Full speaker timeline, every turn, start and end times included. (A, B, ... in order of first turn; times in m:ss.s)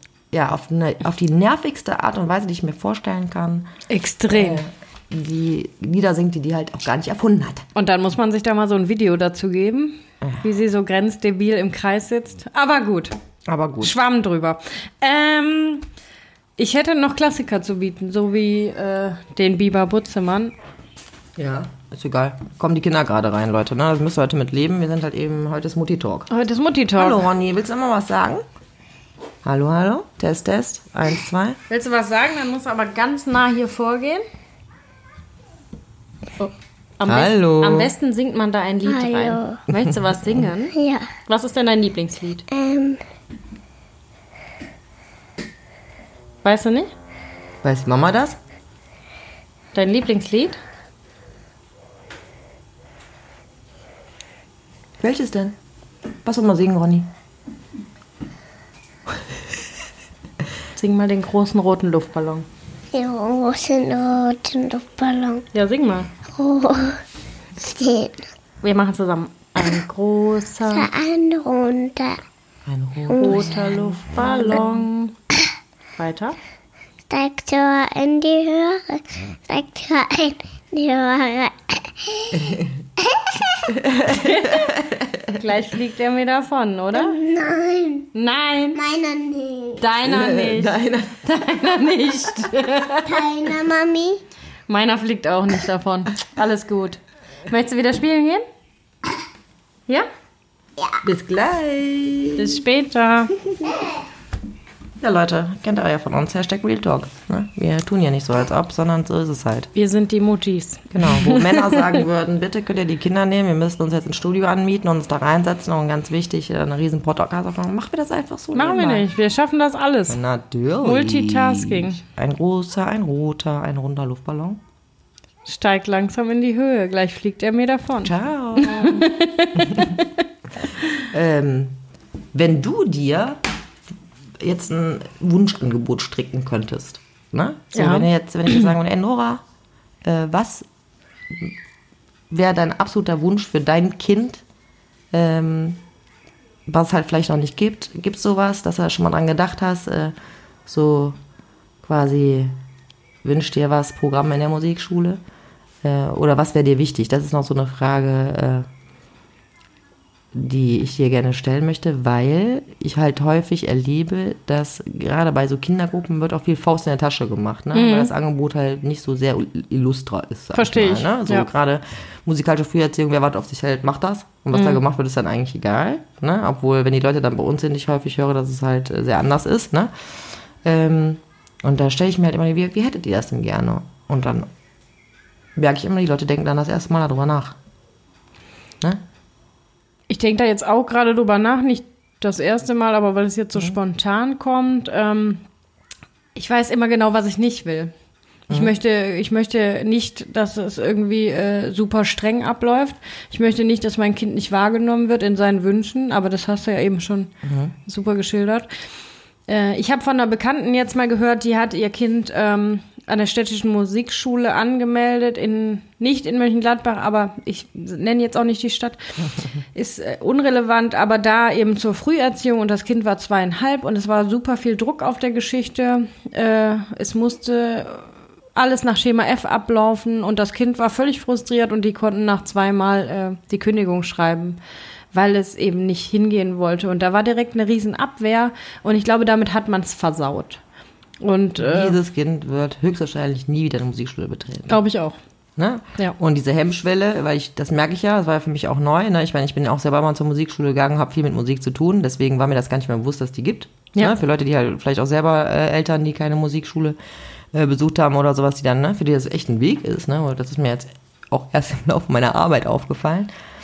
0:00.3-0:03.7 A
0:03.9-0:04.6 B
0:04.3-0:07.7 A
0:07.8-0:13.2 B
0:13.5-0:14.0 A
0:13.8-0:15.9 B
0:16.6-0:20.5 B
0:21.4-0:26.3 A
0:26.3-0:27.3 B
0:27.0-0:28.4 A
0:29.4-0:31.6 A
0:31.7-0:34.2 B
0:36.4-0:40.8 B
0:37.1-0:37.9 A
0:38.9-0:39.6 C
0:39.7-0:40.4 A
0:40.7-0:41.1 C
0:41.3-0:42.5 B
0:42.5-0:43.0 C
0:46.4-0:46.9 B
0:47.6-0:48.4 A
0:49.7-0:50.6 B
0:55.0-0:55.6 A
0:56.2-0:57.1 A
1:00.8-1:02.5 B
1:02.9-1:05.5 C
1:05.5-1:06.1 B
1:06.3-1:07.0 C
1:07.6-1:08.2 C
1:08.6-1:10.9 B
1:10.7-1:12.2 C
1:12.7-1:14.6 A
1:13.1-1:13.5 C
1:13.2-1:15.2 B
1:16.0-1:16.4 B
1:17.1-1:23.7 C
1:22.3-1:22.8 A
1:23.7-1:25.4 A
1:24.1-1:24.7 B
1:25.3-1:27.2 B
1:26.9-1:28.1 C
1:28.1-1:28.8 B
1:28.8-1:29.9 C
1:29.8-1:33.2 B
1:30.0-1:31.2 A
1:33.0-1:34.2 C
1:34.7-1:38.4 B
1:41.0-1:42.6 A
1:42.4-1:43.3 B
1:45.0-1:49.7 A
1:49.7-1:51.9 B
1:50.9-1:59.1 A
1:58.5-2:00.2 B
2:00.1-2:04.6 A
2:00.8-2:02.0 B
2:05.5-2:10.1 B
2:08.0-2:10.0 A
2:11.0-2:11.8 A
2:12.3-2:13.4 A
2:14.4-2:19.4 A
2:17.7-2:18.7 B
2:20.0-2:20.7 A
2:22.3-2:24.4 A
2:25.1-2:25.8 A
2:26.7-2:30.1 A
2:30.7-2:31.2 A
2:31.8-2:32.6 A
2:33.2-2:35.2 A
2:35.8-2:38.7 A
2:40.3-2:59.9 A
2:47.7-2:48.1 B
2:50.5-2:51.5 B
2:54.5-2:54.8 B
3:00.6-3:04.5 A
3:05.6-3:07.6 A
3:10.1-3:15.4 B
3:16.4-3:17.9 B
3:18.5-3:27.3 B
3:27.4-3:27.7 A
3:27.8-3:28.7 B
3:29.5-3:54.6 B
3:55.1-4:00.6 B
4:01.2-4:02.0 B
4:01.6-4:04.8 A
4:04.7-4:05.2 B
4:05.6-4:17.0 A
4:17.5-4:23.3 A